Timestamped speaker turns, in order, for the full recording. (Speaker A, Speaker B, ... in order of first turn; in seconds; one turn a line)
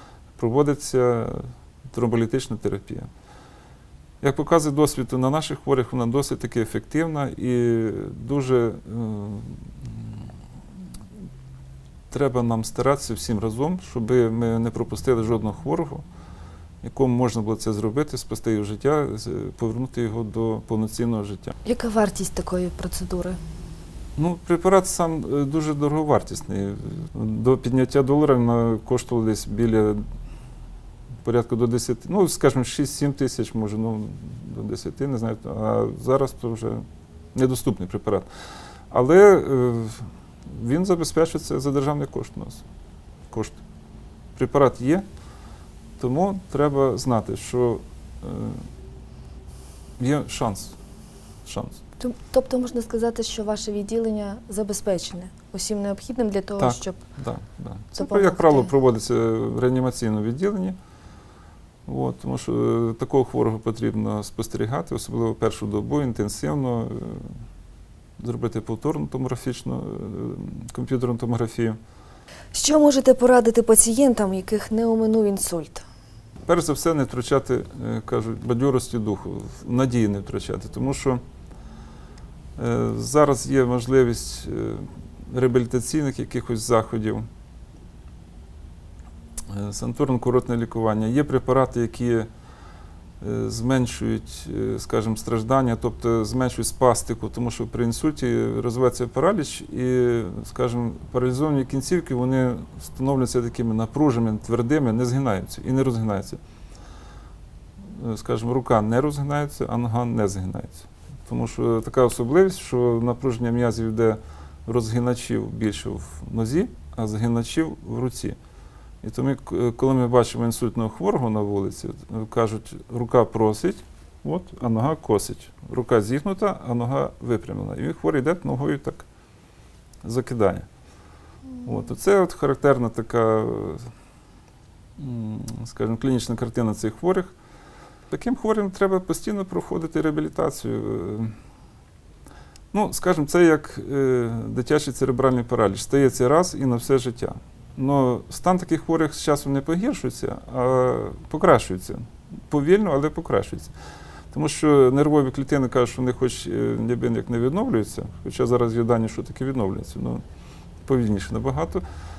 Speaker A: 0.4-3.1
Speaker A: 4.2-10.2
Speaker A: 12.1-16.1
Speaker A: 16.8-21.6
Speaker B: 21.6-23.4
Speaker A: 24.2-30.0
Speaker A: 31.2-36.8
Speaker A: 37.4-38.3
Speaker A: 38.9-42.6
Speaker A: 43.3-43.6
Speaker A: 44.4-45.0
Speaker A: 46.0-48.7
Speaker A: 50.0-50.8
Speaker A: 51.5-51.8
Speaker B: 52.0-57.0
Speaker A: 56.6-60.8
Speaker B: 58.0-58.7
Speaker A: 61.9-67.4
Speaker A: 68.2-71.8
Speaker B: 72.5-75.8
Speaker A: 76.5-81.2
Speaker A: 82.6-87.3
Speaker A: 89.5-92.3
Speaker A: 93.2-106.4
Speaker A: 107.9-118.4
Speaker A: 119.0-129.1
Speaker A: 130.0-130.7
Speaker A: 131.6-133.9
Speaker A: 135.0-137.3
Speaker A: 138.1-141.3
Speaker A: 142.7-153.7
Speaker A: 154.3-160.2
Speaker A: 160.8-161.8